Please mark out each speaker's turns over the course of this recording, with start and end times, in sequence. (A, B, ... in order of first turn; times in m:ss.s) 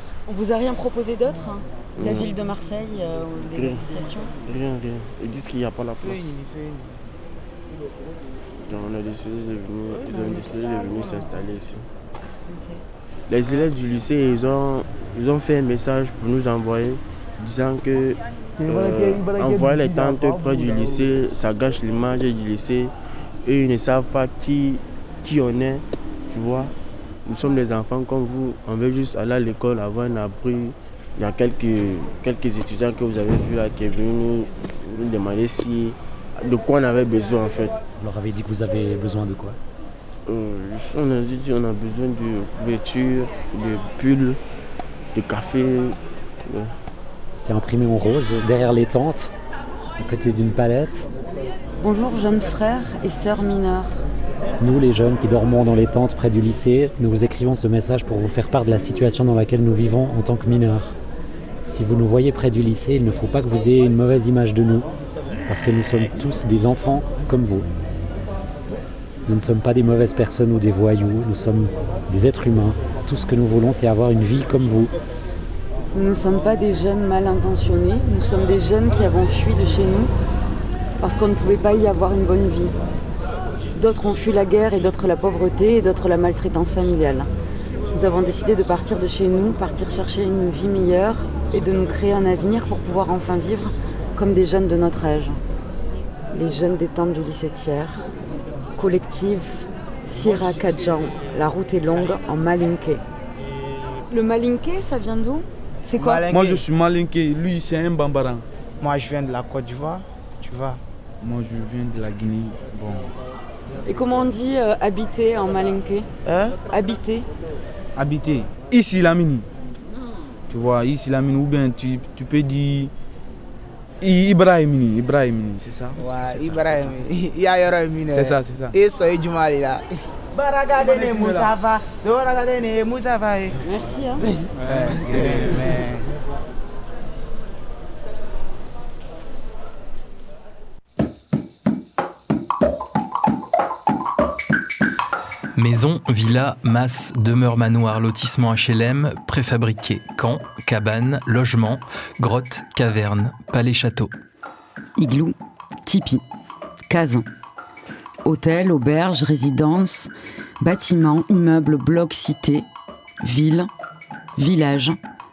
0:00.3-0:04.3 A
0:02.0-0:02.3 B
0:03.6-0:06.4 B
0:08.6-0:11.9 B
0:12.5-0:12.8 A
0:13.3-0:22.9 B
0:18.7-0:20.7 C
0:23.4-0:26.8 B
0:27.3-0:37.8 B
0:38.0-0:39.6 D
0:40.3-0:44.4 B
0:45.1-0:46.7 B
0:47.4-0:49.3 D
0:50.0-0:51.1 D
0:51.8-0:54.0 A
0:54.6-1:01.0 D
1:01.6-1:04.9 D
1:05.5-1:07.7 D
1:09.3-1:14.9 D
1:15.9-1:20.1 A
1:21.0-1:22.8 A
1:23.8-1:27.3 A
1:27.9-1:35.4 A
1:36.3-1:38.0 A
1:38.8-1:43.0 A
1:44.1-1:46.4 A
1:46.0-1:46.6 E
1:46.3-1:48.4 C
1:48.8-1:50.8 E
1:51.2-1:53.1 C
1:53.9-1:56.1 A
1:56.3-1:56.6 E
1:56.6-1:57.3 A
1:58.0-1:59.5 C
2:00.5-2:02.9 C
2:04.0-2:06.9 C
2:06.0-2:13.6 E
2:08.1-2:08.8 C
2:10.8-2:11.6 C
2:13.6-2:14.3 A
2:14.6-2:15.6 C
2:14.7-2:16.1 E
2:25.6-2:34.1 F
2:35.0-2:36.2 A
2:36.9-2:37.3 A
2:38.3-2:42.7 A
2:43.2-2:43.7 A
2:44.4-2:45.0 A